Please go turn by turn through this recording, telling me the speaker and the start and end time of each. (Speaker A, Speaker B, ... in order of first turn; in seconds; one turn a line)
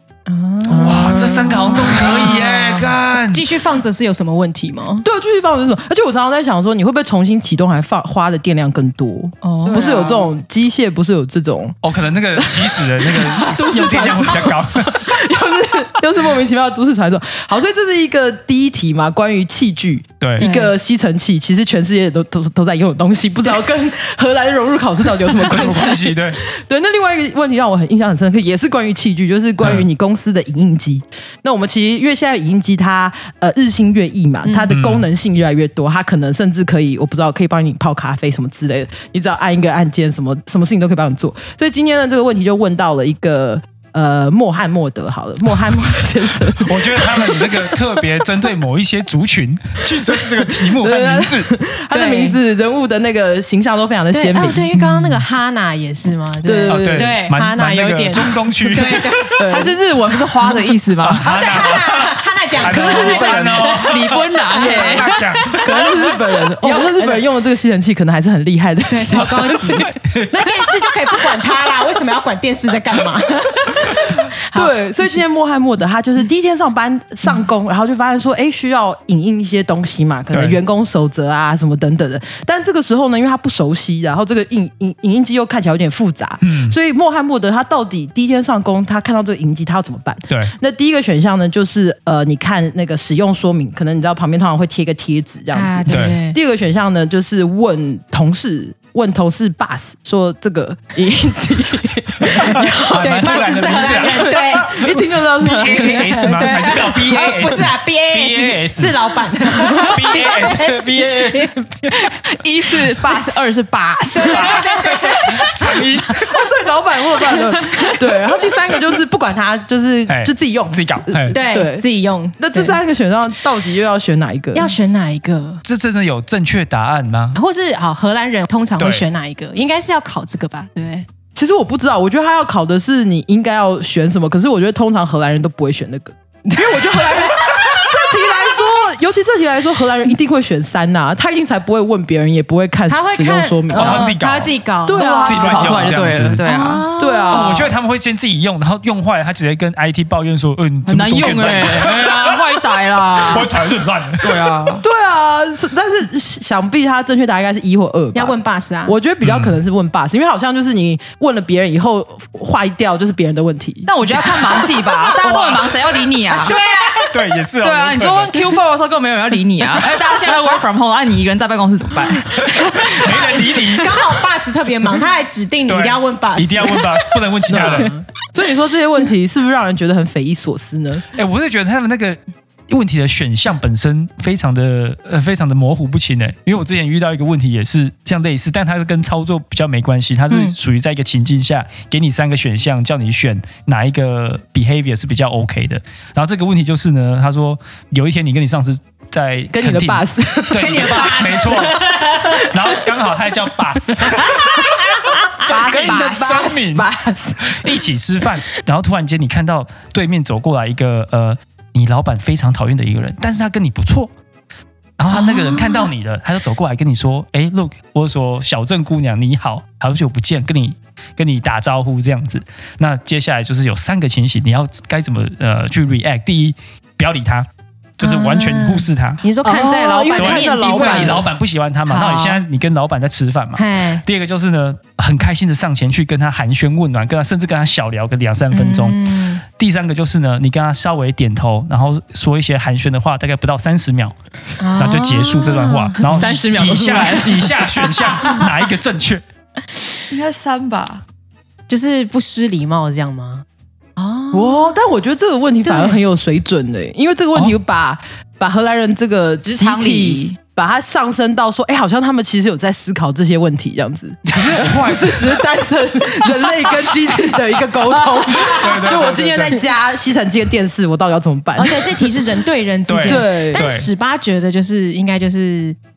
Speaker A: 0.3-5.0
Speaker B: 0.6-2.8
Speaker C: 0.7-3.5
Speaker B: 5.0-11.8
Speaker A: 9.4-10.2
Speaker D: 9.7-10.0
Speaker C: 11.8-15.2
Speaker B: 12.3-48.0
Speaker C: 20.2-20.5
Speaker A: 20.4-20.7
Speaker C: 25.3-26.4
Speaker A: 34.4-34.7
Speaker C: 34.7-35.0
Speaker C: 46.5-51.5
Speaker B: 50.0-54.8
Speaker A: 51.9-52.3
Speaker D: 52.0-52.3
Speaker A: 54.1-59.4
Speaker C: 54.7-55.2
Speaker B: 56.4-57.1
Speaker C: 56.7-59.3
Speaker B: 58.9-59.8
Speaker D: 59.5-61.3
Speaker C: 61.0-65.7
Speaker A: 61.2-67.2
Speaker B: 62.6-63.7
Speaker D: 62.9-65.2
Speaker B: 65.5-69.9
Speaker A: 68.9-75.2
Speaker C: 69.9-70.3
Speaker B: 74.5-106.7
Speaker C: 80.3-80.6
Speaker C: 86.4-86.8
Speaker A: 95.5-96.4
Speaker C: 95.9-96.2
Speaker C: 102.2-112.1
Speaker A: 102.5-104.8
Speaker A: 105.6-111.6
Speaker D: 111.9-115.0
Speaker A: 114.1-115.8
Speaker C: 114.2-116.3
Speaker B: 116.1-121.8
Speaker A: 117.3-117.9
Speaker C: 120.1-121.3
Speaker A: 121.3-122.8
Speaker B: 122.4-124.8
Speaker A: 124.5-125.6
Speaker C: 125.6-127.4
Speaker A: 127.3-131.1
Speaker C: 128.8-129.1
Speaker B: 131.3-144.1
Speaker A: 136.7-137.9
Speaker A: 142.9-145.8
Speaker C: 143.7-144.5
Speaker B: 144.8-145.9
Speaker D: 145.0-146.9
Speaker C: 145.2-146.4
Speaker A: 146.4-147.5
Speaker B: 147.0-147.7
Speaker C: 147.3-152.6
Speaker D: 150.8-153.6
Speaker C: 153.2-154.4
Speaker D: 154.2-154.8
Speaker B: 154.8-164.7
Speaker A: 158.1-158.9
Speaker C: 159.2-159.6
Speaker D: 163.9-166.6
Speaker C: 165.2-165.6
Speaker A: 166.3-167.2
Speaker C: 167.1-168.4
Speaker D: 167.6-173.3
Speaker C: 172.3-174.1
Speaker A: 173.4-177.9
Speaker C: 175.7-177.9
Speaker B: 177.5-181.1
Speaker C: 181.1-204.7
Speaker B: 199.5-201.5
Speaker A: 200.6-202.5
Speaker A: 204.2-205.4
Speaker D: 205.4-206.4
Speaker C: 205.4-206.9
Speaker B: 205.4-207.7
Speaker C: 207.4-214.1
Speaker C: 215.0-227.5
Speaker A: 215.2-215.9
Speaker C: 228.0-229.2
Speaker A: 228.0-231.2
Speaker B: 229.4-231.3
Speaker C: 230.2-244.2
Speaker A: 231.9-232.4
Speaker A: 233.6-234.0
Speaker A: 238.5-239.4
Speaker A: 244.6-246.0
Speaker C: 244.8-249.2
Speaker D: 246.0-247.6
Speaker B: 246.1-247.4
Speaker D: 250.1-251.0
Speaker A: 251.7-253.4
Speaker A: 254.0-254.7
Speaker B: 254.3-272.1
Speaker A: 255.6-256.0
Speaker D: 259.4-260.4
Speaker C: 264.3-265.4
Speaker A: 268.1-268.9
Speaker C: 268.4-269.6
Speaker A: 271.6-275.8
Speaker C: 272.9-273.9
Speaker B: 273.0-273.7